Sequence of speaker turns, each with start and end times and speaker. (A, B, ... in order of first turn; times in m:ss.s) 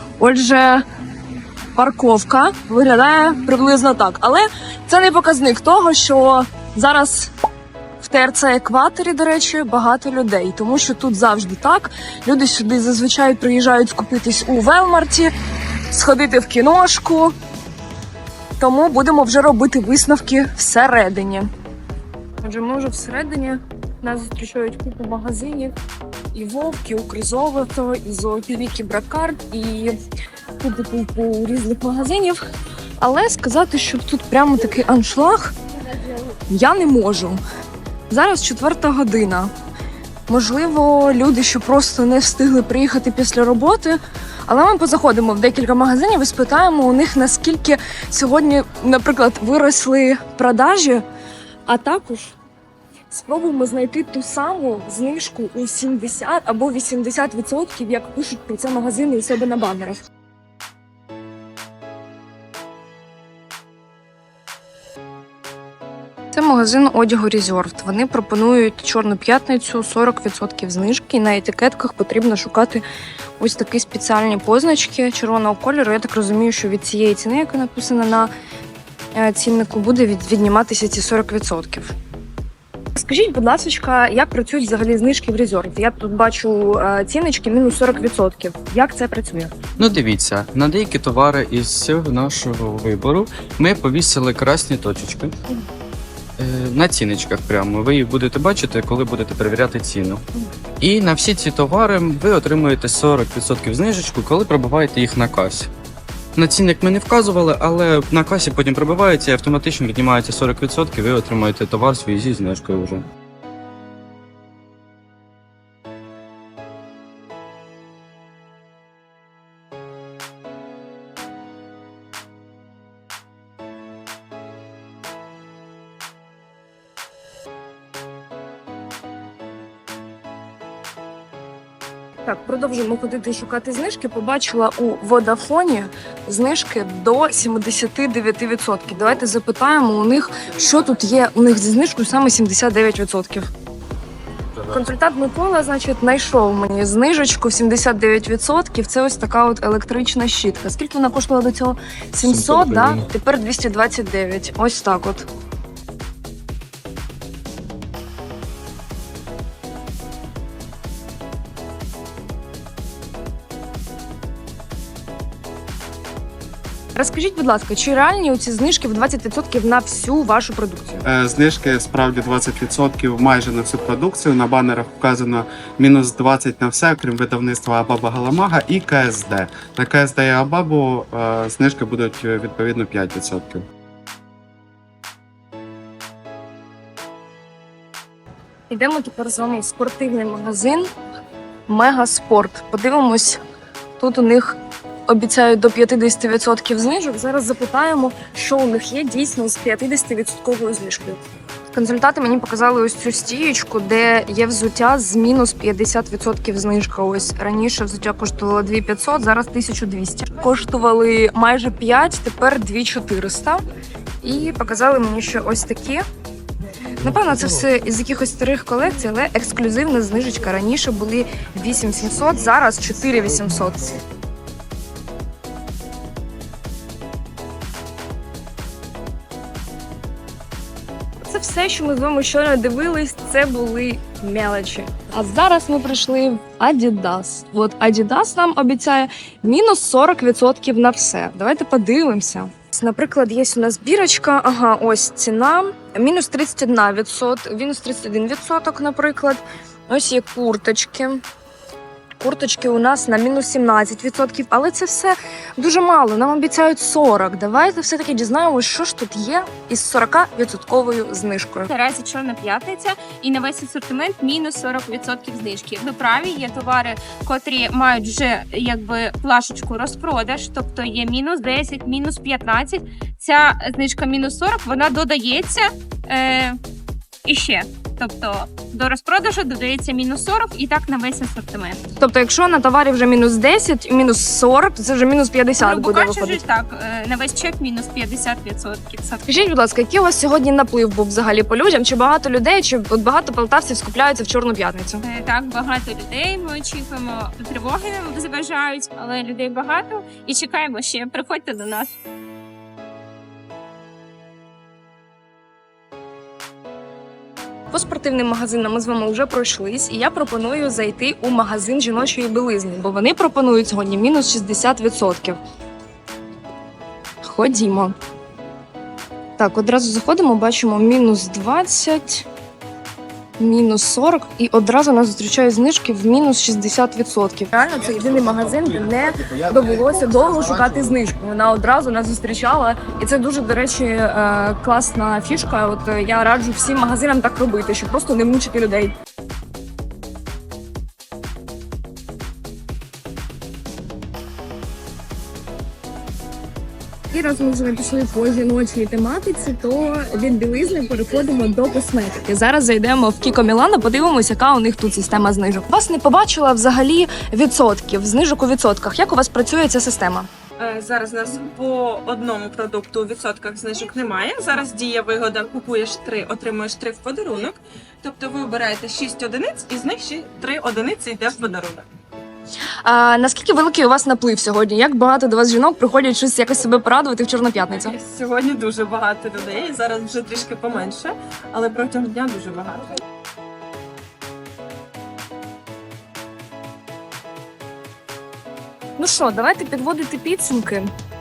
0:00.2-0:00.8 A
0:01.7-0:07.3 A
0:08.0-0:15.3 A
0:15.9-0:17.3 A
0:18.6-0:21.5 A
0:22.4-0:25.7 A
0:26.3-0:30.0 A
0:30.6-0:32.4 A
0:33.0-0:35.5 A
0:36.3-0:37.4 A
0:38.1-0:39.5 A
0:40.3-0:51.0 A
0:51.7-0:52.3 A
0:53.1-1:00.0 A
1:06.3-1:12.8 A
1:13.4-1:18.3 A
1:19.1-1:21.9 A
1:23.0-1:29.5 A
1:29.8-1:35.3 B
1:36.4-1:40.2 B
1:40.8-1:45.7 B
1:46.4-1:53.0 B
2:12.2-2:23.5 A
2:24.6-2:35.2 A
2:32.2-2:33.1 B
2:46.9-2:51.0 A
2:51.0-3:03.6 C
3:08.7-3:10.9 A
3:11.7-3:13.4 A
3:14.0-3:21.2 A
3:21.7-3:33.6 A
3:34.2-3:36.0 A
3:37.0-3:43.9 A
3:51.2-4:11.2 A
4:12.2-4:21.7 A
4:21.7-4:36.6 D
4:37.2-4:41.8 D
4:42.0-4:46.4 A
4:45.6-4:49.3 D
4:49.3-4:55.0 A
4:55.0-5:02.0 D
5:07.7-5:15.4 A
5:17.2-5:17.9 A
5:19.4-5:22.3 A
5:23.4-5:38.9 A
5:47.1-6:00.3 A
6:00.6-6:11.8 E
6:12.8-6:18.0 A
6:17.7-6:22.9 E
6:29.0-6:30.9 A